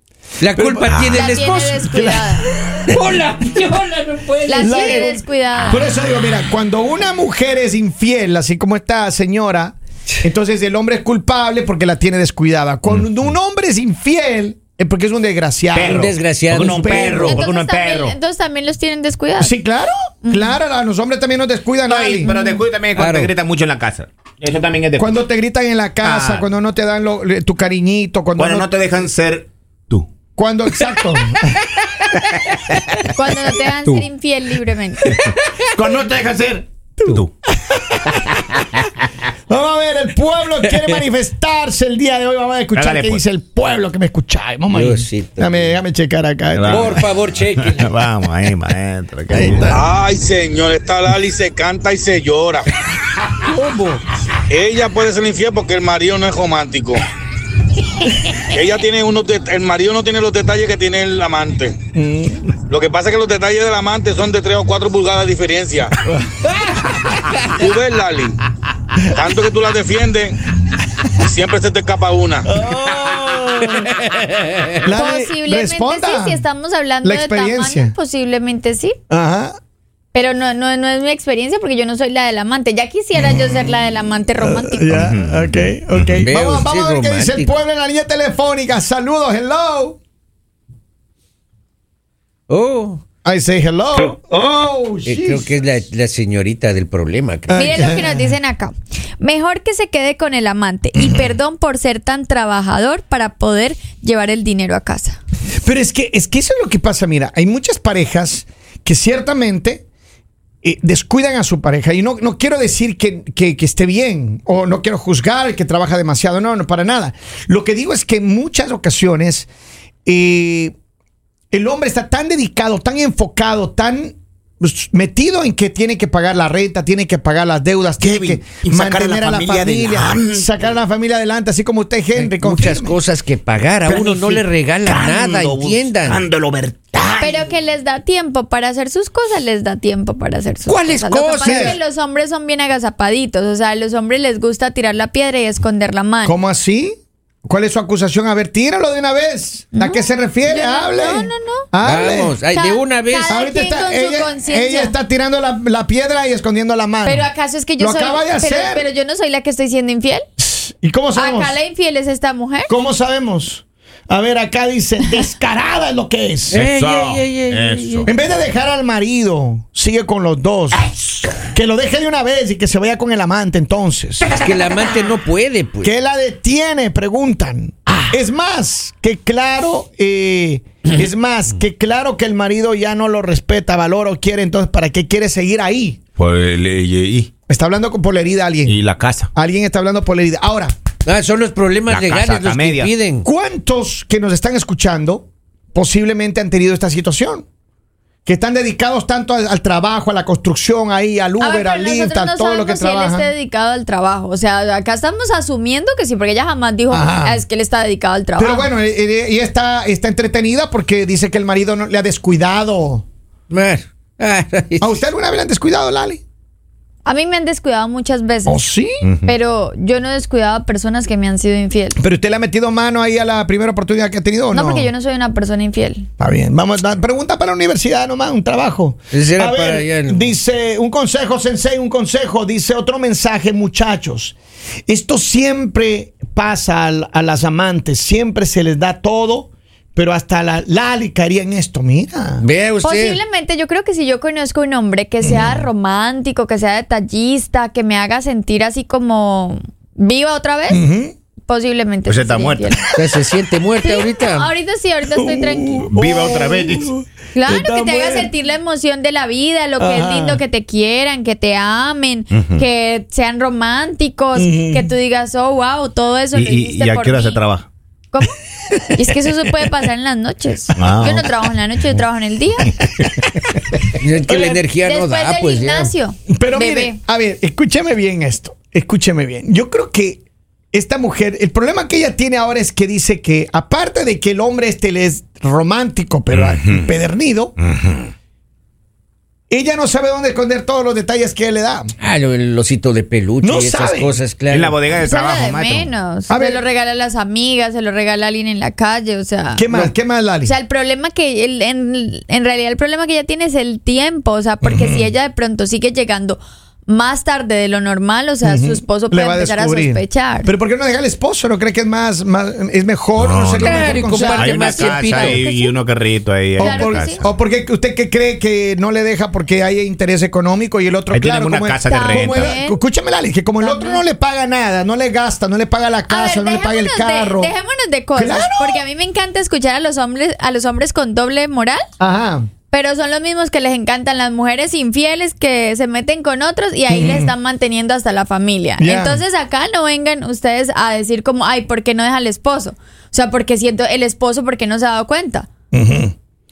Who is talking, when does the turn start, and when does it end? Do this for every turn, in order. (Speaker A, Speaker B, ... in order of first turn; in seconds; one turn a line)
Speaker A: 0.4-1.9
Speaker B: 0.5-0.9
Speaker C: 0.9-1.3
Speaker D: 1.1-2.5
Speaker B: 1.8-3.0
Speaker A: 2.9-5.1
Speaker D: 4.5-5.9
Speaker B: 4.6-17.4
Speaker C: 12.9-13.1
Speaker C: 15.7-18.2
Speaker A: 15.8-16.9
Speaker D: 16.9-19.6
Speaker B: 19.4-22.3
Speaker D: 20.2-20.6
Speaker C: 21.9-25.2
Speaker D: 22.2-22.6
Speaker A: 22.9-23.3
Speaker B: 25.0-28.7
Speaker C: 26.0-26.5
Speaker C: 28.4-30.1
Speaker B: 30.4-31.6
Speaker A: 31.4-32.2
Speaker C: 32.3-33.0
Speaker D: 33.1-35.1
Speaker C: 35.1-37.3
Speaker B: 37.6-38.3
Speaker B: 39.5-47.1
Speaker A: 40.7-41.0
Speaker C: 42.7-43.2
Speaker A: 44.7-45.8
Speaker C: 46.5-49.9
Speaker A: 46.7-48.0
Speaker B: 49.3-49.9
Speaker E: 49.7-52.7
Speaker B: 53.4-54.0
Speaker E: 54.5-57.0
Speaker E: 58.4-61.8
Speaker B: 62.0-62.5
Speaker E: 62.6-66.0
Speaker B: 66.0-66.3
Speaker A: 66.5-67.5
Speaker E: 67.5-68.4
Speaker E: 69.0-70.4
Speaker E: 71.1-72.5
Speaker B: 72.5-73.9
Speaker A: 73.6-74.8
Speaker B: 74.8-76.4
Speaker D: 74.9-79.0
Speaker B: 77.0-77.9
Speaker B: 79.1-79.6
Speaker D: 80.1-85.0
Speaker B: 83.1-83.8
Speaker B: 84.4-90.0
Speaker C: 84.9-86.2
Speaker A: 86.2-87.5
Speaker A: 92.5-93.0
Speaker B: 93.2-95.5
Speaker A: 95.1-98.0
Speaker B: 97.5-98.3
Speaker D: 97.5-105.2
Speaker B: 101.0-101.3
Speaker B: 105.6-109.8
Speaker B: 110.6-119.5
Speaker B: 120.1-120.8
Speaker B: 121.5-133.0
Speaker C: 128.0-130.6
Speaker A: 132.2-136.2
Speaker C: 133.9-137.4
Speaker D: 137.2-146.4
Speaker A: 140.7-141.8
Speaker B: 141.4-141.8
Speaker B: 146.2-152.4
Speaker D: 149.7-151.7
Speaker A: 151.8-153.4
Speaker D: 152.5-155.0
Speaker B: 153.3-158.9
Speaker D: 157.1-160.3
Speaker B: 160.4-161.6
Speaker D: 161.1-162.7
Speaker B: 162.7-166.6
Speaker A: 166.5-168.1
Speaker C: 166.6-168.2
Speaker B: 168.1-170.8
Speaker B: 171.5-174.3
Speaker A: 174.4-175.9
Speaker B: 175.8-186.0
Speaker C: 186.2-187.3
Speaker B: 187.5-188.8
Speaker C: 188.7-189.3
Speaker B: 189.3-190.7
Speaker A: 191.1-193.2
Speaker C: 191.9-192.9
Speaker B: 193.2-197.4
Speaker B: 198.3-203.3
Speaker D: 201.4-208.7
Speaker B: 206.9-207.4
Speaker B: 208.4-213.0
Speaker A: 213.5-215.0
Speaker B: 214.8-216.2
Speaker D: 217.1-218.6
Speaker B: 218.5-219.0
Speaker C: 219.0-219.3
Speaker D: 219.2-222.0
Speaker B: 222.0-224.9
Speaker D: 224.5-226.1
Speaker B: 226.2-234.3
Speaker A: 229.1-230.4
Speaker B: 234.9-242.4
Speaker A: 242.4-243.2
Speaker D: 242.8-250.8
Speaker B: 245.2-245.7
Speaker B: 250.7-251.1
Speaker D: 251.5-252.8
Speaker C: 252.1-252.9
Speaker A: 253.0-254.5
Speaker D: 253.8-255.9
Speaker B: 255.1-258.3
Speaker C: 255.9-256.9
Speaker D: 257.3-267.4
Speaker B: 259.8-260.4
Speaker C: 262.3-262.6
Speaker B: 264.4-264.9
Speaker C: 266.3-267.7
Speaker D: 268.9-272.7
Speaker C: 270.8-271.3
Speaker A: 274.0-275.9
Speaker D: 274.3-277.0
Speaker B: 276.3-280.2
Speaker B: 280.7-287.6
Speaker C: 286.3-286.9
Speaker C: 287.6-288.1
Speaker B: 289.5-291.9
Speaker A: 292.0-294.9
Speaker B: 293.4-294.2
Speaker C: 294.5-295.9
Speaker D: 295.0-310.5
Speaker B: 296.3-296.6
Speaker B: 299.6-300.5
Speaker B: 304.6-305.1
Speaker B: 308.4-314.8
Speaker C: 313.2-317.4
Speaker A: 313.6-315.4
Speaker D: 314.2-315.8
Speaker D: 316.6-317.2
Speaker B: 316.6-327.5
Speaker C: 321.1-322.6
Speaker D: 321.9-322.8
Speaker D: 323.6-324.0
Speaker D: 326.1-331.8
Speaker B: 328.1-328.8
Speaker B: 332.0-332.5
Speaker D: 332.7-345.5
Speaker B: 336.9-337.3
Speaker B: 338.8-339.2
Speaker B: 345.7-346.1